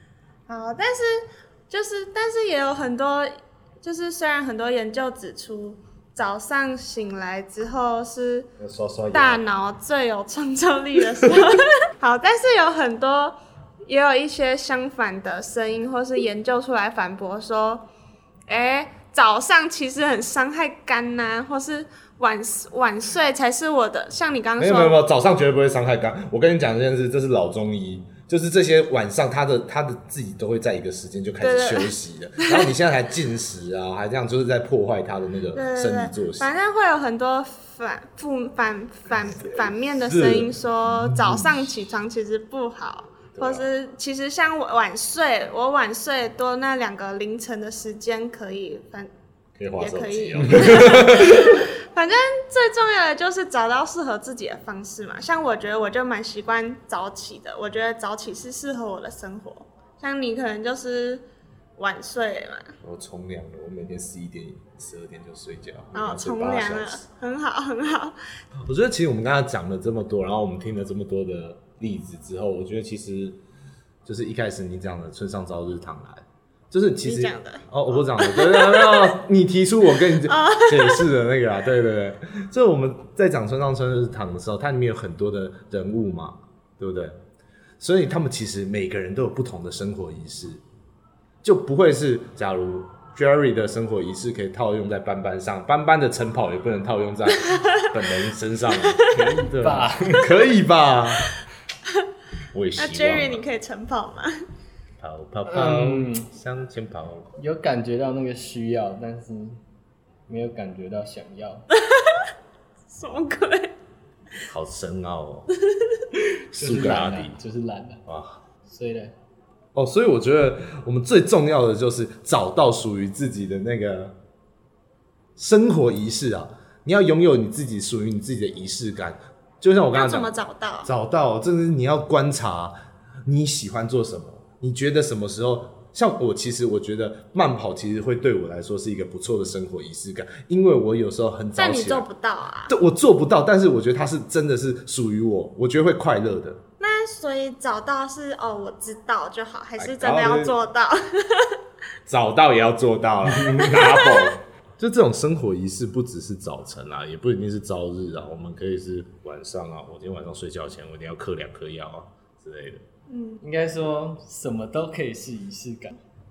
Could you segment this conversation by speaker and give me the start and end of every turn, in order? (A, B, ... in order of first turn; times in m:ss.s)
0:00.5-0:08.5 A
0:08.6-0:09.4 B
0:09.1-0:17.8 A
0:18.5-0:25.0 A
0:24.6-0:36.5 B
0:31.4-0:32.6 A
0:35.5-0:49.1 A
0:39.9-0:41.5 B
0:43.3-0:43.7 B
0:49.6-0:51.6 B
0:49.8-1:01.2 A
1:01.8-1:02.7 A
1:02.8-1:07.0 B
1:05.9-1:08.2 A
1:08.6-1:13.4 B
1:14.0-1:27.2 B
1:17.0-1:19.0 A
1:20.2-1:21.0 A
1:27.8-1:30.6 B
1:31.4-1:41.2 B
1:39.1-1:40.4 C
1:42.5-1:43.4 B
1:42.8-1:44.3 A
1:45.0-1:47.3 B
1:45.5-1:46.3 C
1:47.4-1:49.6 C
1:50.3-1:51.6 C
1:51.9-1:52.2 A
1:52.9-1:53.7 A
1:54.5-1:55.5 B
1:56.5-1:58.0 C
1:56.5-1:57.4 B
1:58.1-1:58.4 B
1:58.7-1:59.1 C
1:59.7-2:04.1 B
2:05.4-2:10.3 B
2:09.9-2:10.9 A
2:10.8-2:12.7 B
2:13.2-2:22.0 B
2:21.6-2:22.7 A
2:22.7-2:26.6 B
2:26.8-2:31.6 A
2:29.8-2:30.6 B
2:32.1-2:42.8 B
2:33.6-2:34.1 A
2:43.1-2:43.4 A
2:43.4-2:46.0 C